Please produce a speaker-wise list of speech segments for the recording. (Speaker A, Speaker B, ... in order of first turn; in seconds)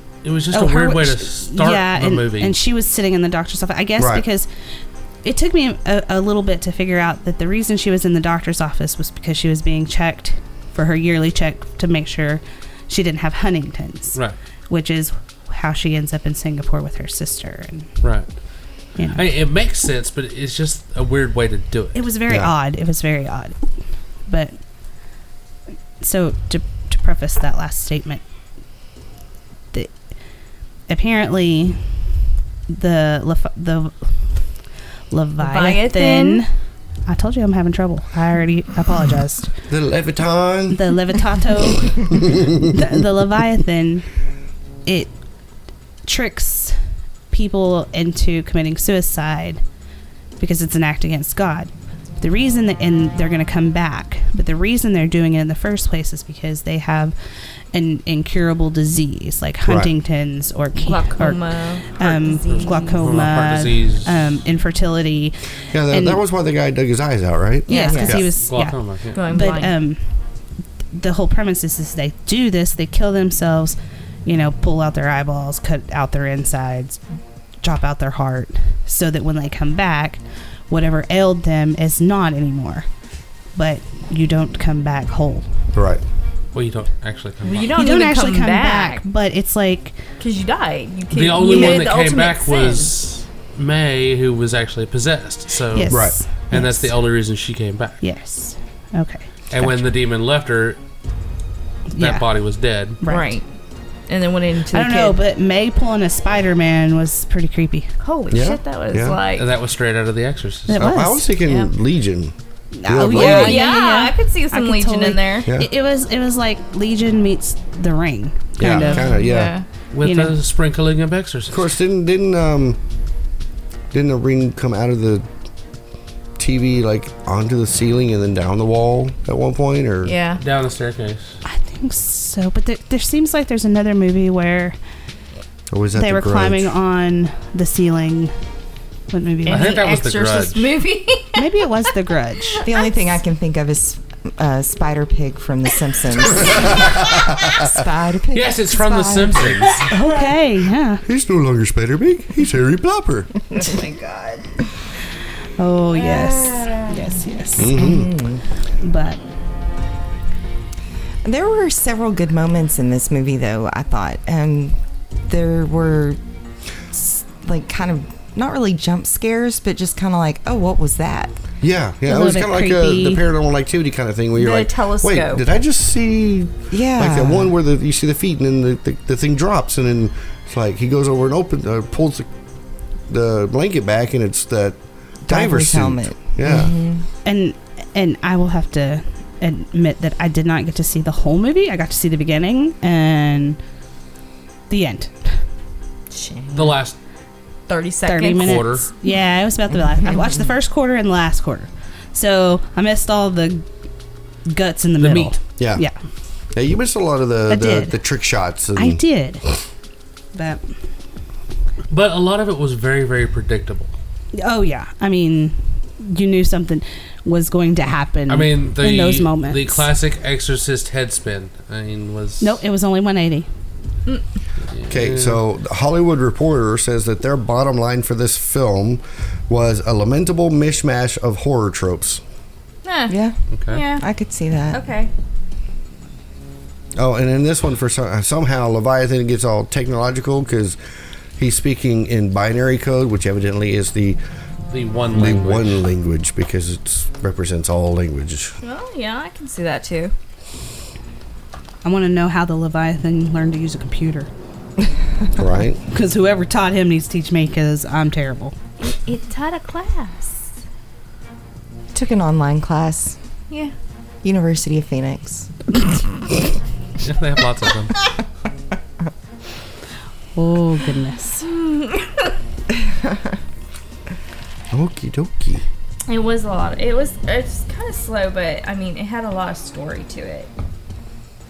Speaker A: 0.2-2.5, 18.0-18.3, 19.1-22.0, 62.5-64.2, 68.4-69.2, 86.5-87.8, 91.1-98.0, 99.5-100.8, 102.0-103.0, 109.3-110.8, 119.9-121.7, 130.4-131.4, 139.5-140.8, 148.3-149.8, 196.5-196.9, 198.3-198.9, 205.0-205.4, 211.9-213.9, 218.3-222.6, 224.7-225.4, 233.5-233.8, 244.7-245.8, 267.0-267.9
Speaker B: 0.5-4.5, 5.2-17.9, 19.0-19.2, 21.9-23.7, 24.2-24.6, 26.0-28.2, 30.9-31.8, 32.7-34.1, 35.1-36.5, 37.1-39.5, 40.7-44.0, 44.9-45.1, 46.0-49.6, 50.4-57.1, 57.7-66.2, 67.7-70.0, 70.9-77.0, 77.6-82.9, 83.5-85.5, 87.7-90.0, 91.5-91.8, 95.7-96.9, 98.0-99.3, 101.9-102.2, 103.0-103.4, 104.7-107.9, 110.7-111.3, 112.7-119.1, 120.0-120.3, 131.4-134.8, 135.9-138.3, 139.1-140.0, 141.3-142.6, 149.9-151.0, 155.6-157.8, 158.8-159.2, 172.1-173.2, 187.2-193.6, 194.7-195.4, 198.1-203.6, 204.4-205.9, 207.5-208.0, 208.8-209.4, 210.3-210.6, 214.3-219.9, 222.4-223.5, 251.8-254.3, 255.9-258.5, 270.3-271.4
Speaker C: 4.0-4.2, 22.3-22.5, 39.7-40.9, 42.1-42.5, 59.6-59.9, 65.7-68.3, 85.7-86.0, 95.9-96.2, 108.3-109.2, 110.8-112.3, 112.8-113.6, 118.6-119.5, 121.5-122.8, 123.9-125.2, 126.4-130.1, 135.7-136.7, 146.4-147.7, 151.0-153.3, 157.6-158.1, 171.6-182.3, 183.1-186.7, 205.6-205.8, 206.5-209.0, 224.9-232.2, 236.9-240.8, 241.4-244.2, 245.1-248.5, 255.4-255.8, 274.7-275.6
Speaker D: 35.4-36.4, 60.8-62.9, 67.7-68.0, 69.1-69.7, 87.4-89.0, 90.2-92.9, 103.0-103.5, 104.1-105.1, 108.0-109.5, 113.2-115.5, 118.8-119.7, 130.1-130.4, 139.5-141.4, 142.6-142.8, 153.6-154.4, 156.1-156.9, 174.3-175.4, 196.1-196.6, 197.7-198.6, 232.8-233.1, 233.7-234.0, 234.7-235.1, 248.6-250.1, 258.8-260.5, 271.5-272.0, 276.1-280.5
Speaker E: 142.6-149.8, 157.6-158.4, 161.2-166.2, 166.9-171.3, 176.7-177.5, 185.2-187.0, 233.1-233.4, 234.0-234.8, 261.9-263.2, 264.2-265.8